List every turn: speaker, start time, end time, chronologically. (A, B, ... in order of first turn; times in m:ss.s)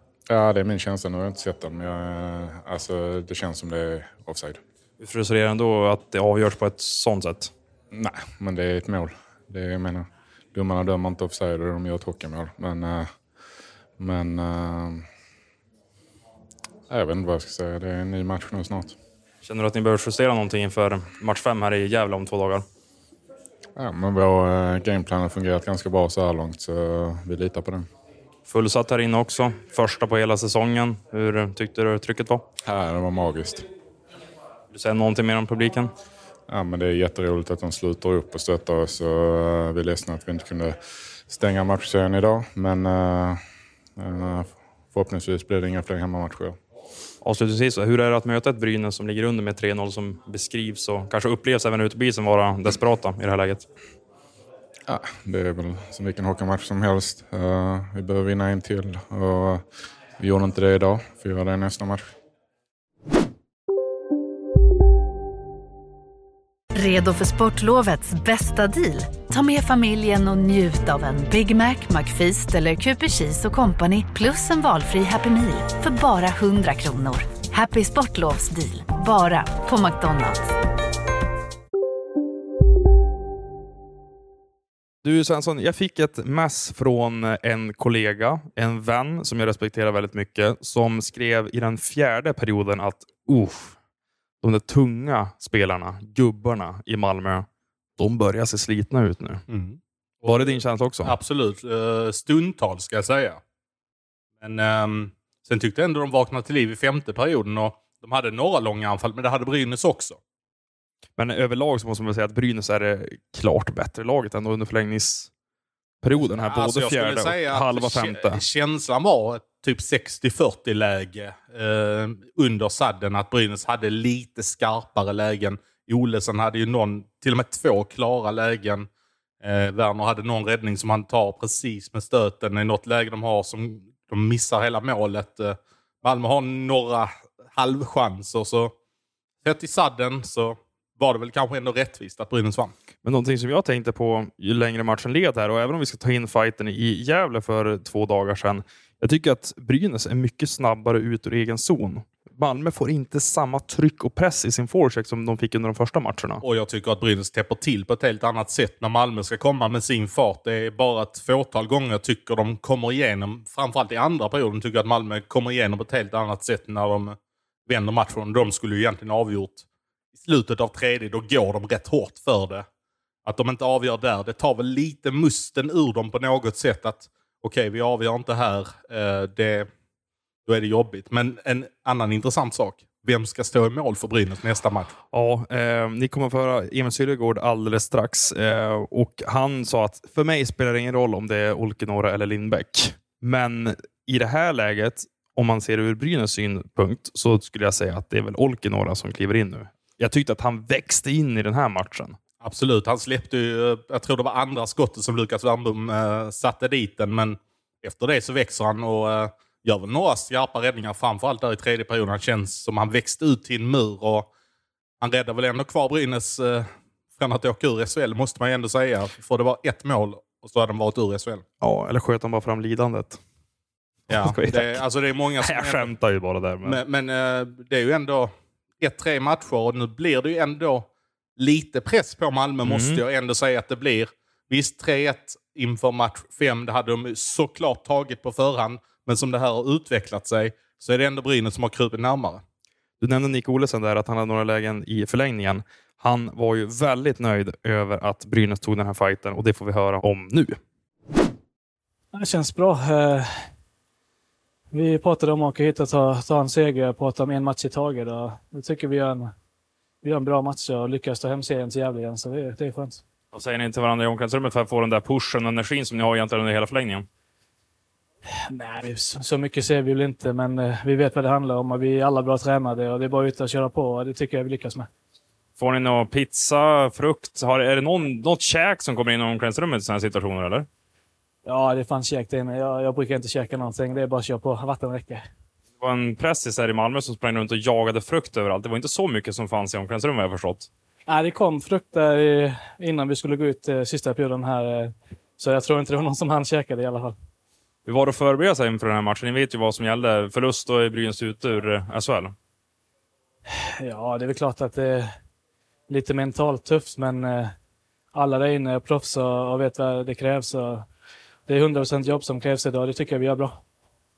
0:00.3-0:04.6 A
0:05.0-0:07.5 B
0:07.9-0:13.1 A
0:14.0-0:15.1 A
0:16.9-0:19.0 A
0:19.4-0:22.6 B
0:23.8-0:27.9 A
0:28.5-0:32.4 B
0:32.6-0:33.6 A
0:34.7-0:35.9 B
0:36.5-0:43.4 A
0:44.0-0:46.6 A
0:47.2-0:53.7 B
0:54.9-0:59.7 A
1:00.2-1:02.1 A
1:06.7-1:20.5 C
1:25.0-1:33.8 B
1:34.4-1:37.5 B
1:38.0-1:39.4 B
1:39.5-1:43.4 D
1:40.2-1:41.2 B
1:44.4-1:50.2 D
1:51.2-1:55.3 B
1:56.0-1:58.4 B
1:56.4-2:08.9 D
2:09.4-2:18.8 D
2:19.4-2:22.7 D
2:23.0-2:36.4 B
2:36.4-2:47.2 D
2:47.7-2:52.6 D
2:53.3-2:59.7 D
3:00.5-3:04.9 D
3:05.1-3:22.2 B
3:22.4-3:34.3 D
3:35.0-3:41.4 D
3:41.6-3:43.2 B
3:44.1-3:45.9 D
3:44.2-3:44.8 B
3:45.4-3:46.8 B
3:46.6-3:50.9 D
3:51.4-4:02.4 D
3:52.6-3:53.0 B
4:03.0-4:10.6 B
4:12.1-4:13.5 E
4:14.7-4:19.3 E
4:20.0-4:23.0 E
4:23.3-4:27.1 B
4:28.5-4:34.9 E
4:35.6-4:40.7 B
4:41.5-4:45.2 E
4:45.8-4:50.7 B
4:51.1-4:57.2 E
4:57.9-5:02.3 B
5:03.5-5:05.1 E
5:05.9-5:07.5 E
5:08.1-5:10.9 E
5:11.5-5:13.6 E